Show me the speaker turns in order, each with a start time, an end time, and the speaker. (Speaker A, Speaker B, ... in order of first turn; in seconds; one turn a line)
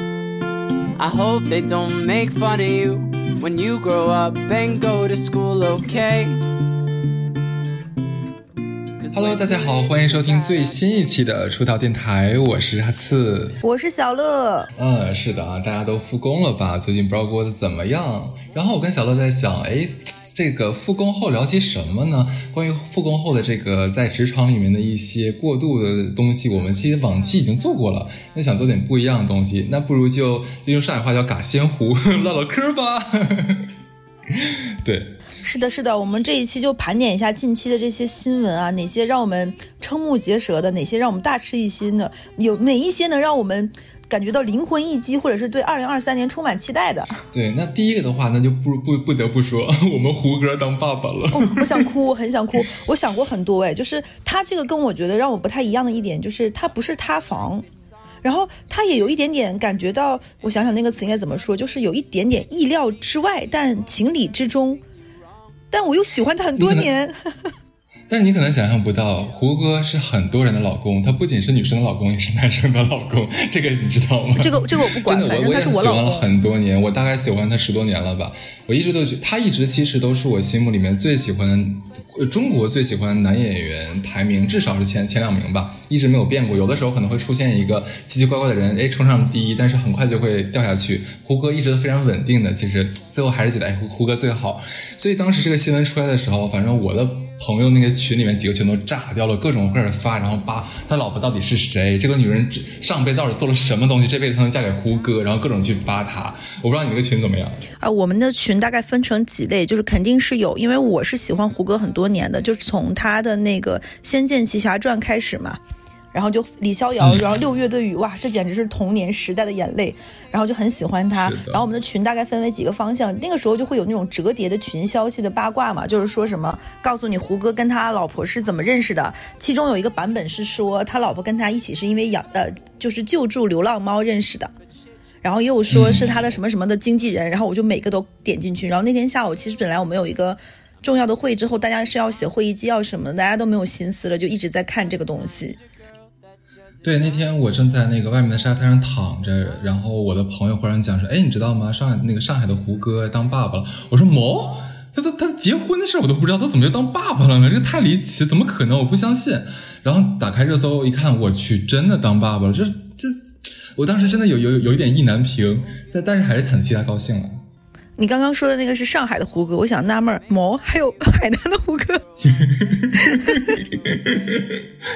Speaker A: 1.0-6.4
Speaker A: 9.0-10.9
Speaker B: 9.1-13.6
Speaker C: 13.6-14.7
Speaker B: 14.8-33.7
Speaker B: 34.3-35.1
Speaker C: 35.4-47.2
Speaker B: 47.3-51.9
Speaker C: 51.3-57.6
Speaker C: 58.2-64.8
Speaker C: 65.7-67.1
Speaker B: 66.6-66.9
Speaker B: 68.1-107.6
Speaker C: 74.4-76.3
Speaker C: 107.8-115.6
Speaker C: 116.1-134.5
Speaker B: 121.2-121.6
Speaker C: 135.2-145.6
Speaker B: 135.7-136.1
Speaker B: 146.8-167.4
Speaker C: 168.0-172.0
Speaker B: 172.3-174.6
Speaker C: 172.9-173.6